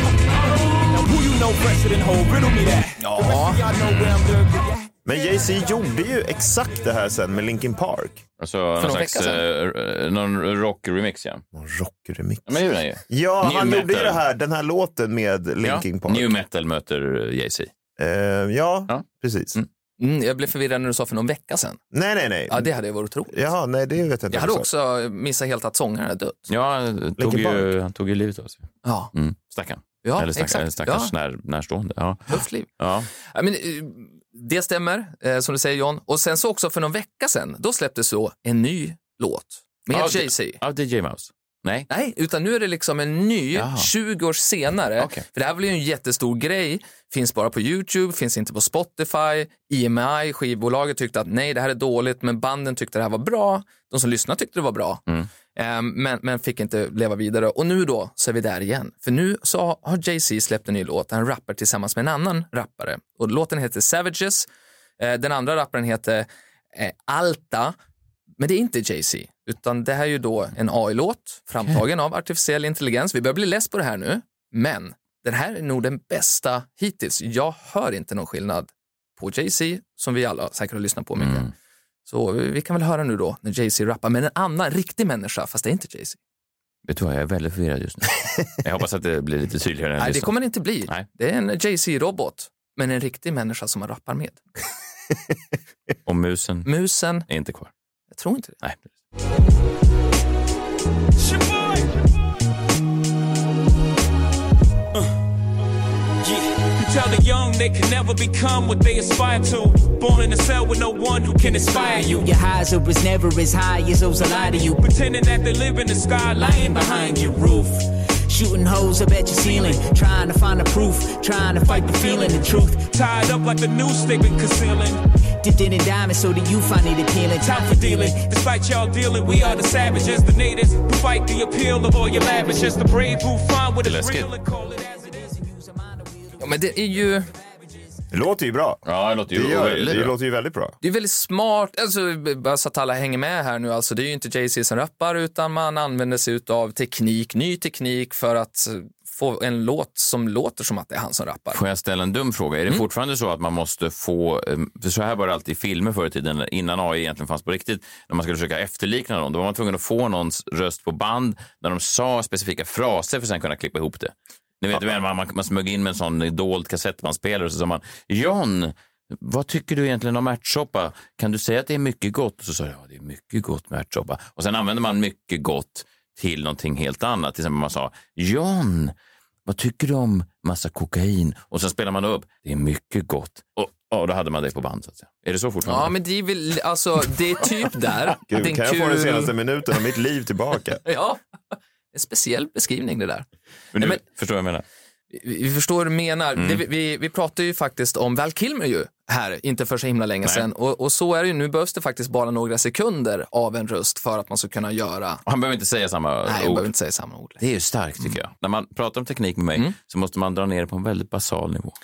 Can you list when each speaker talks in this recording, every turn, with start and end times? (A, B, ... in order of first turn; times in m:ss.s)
0:00.4-0:05.0 A
0:03.0-0:03.6 B
0:05.0-0:08.2 C
0:08.4-0:11.4 D
0:08.8-0:09.4 B
0:11.5-0:16.3 C
0:12.5-0:14.2 D
0:15.6-0:17.7 D
0:18.0-0:19.6 C
0:18.9-0:19.6 D
0:20.0-0:21.8 B
0:21.9-0:22.7 C
0:22.5-0:23.4 B
0:23.3-0:24.7 C
0:24.3-0:26.4 B
0:26.5-0:33.1 D
0:27.2-0:27.7 C
0:28.8-0:29.1 B
0:30.0-0:31.1 B
0:32.3-0:32.7 B
0:33.2-0:40.6 B
0:39.9-0:41.9 D
0:41.9-0:55.0 B
0:43.5-0:43.9 D
0:45.0-0:45.2 D
0:55.5-1:04.4 B
1:05.0-1:07.7 B
1:08.4-1:21.5 B
1:21.2-1:21.5 D
1:22.1-1:26.2 B
1:26.8-1:31.0 D
1:30.0-1:34.4 B
1:36.0-1:36.7 D
1:36.6-1:37.3 B
1:37.2-1:37.7 D
1:38.1-1:38.6 B
1:41.2-1:41.9 A
1:46.2-1:52.3 A
1:51.4-1:54.8 E
1:54.2-1:57.8 A
1:56.3-1:57.4 E
1:58.3-2:02.8 E
1:59.4-1:59.8 A
2:01.6-2:05.0 A
2:05.4-2:08.2 E
2:07.4-2:15.1 A
2:13.8-2:14.3 D
2:16.4-2:17.3 B
2:18.1-2:20.8 C
2:18.8-2:20.1 D
2:20.8-2:31.6 B
2:31.5-2:58.9 D
2:59.4-3:05.9 D
3:05.6-3:09.3 B
3:08.3-3:10.8 C
3:10.8-3:11.2 B
3:11.9-3:13.2 B
3:13.7-3:14.6 D
3:15.1-3:25.2 B
3:25.2-3:26.7 D
3:26.2-3:27.4 B
3:27.4-3:31.8 D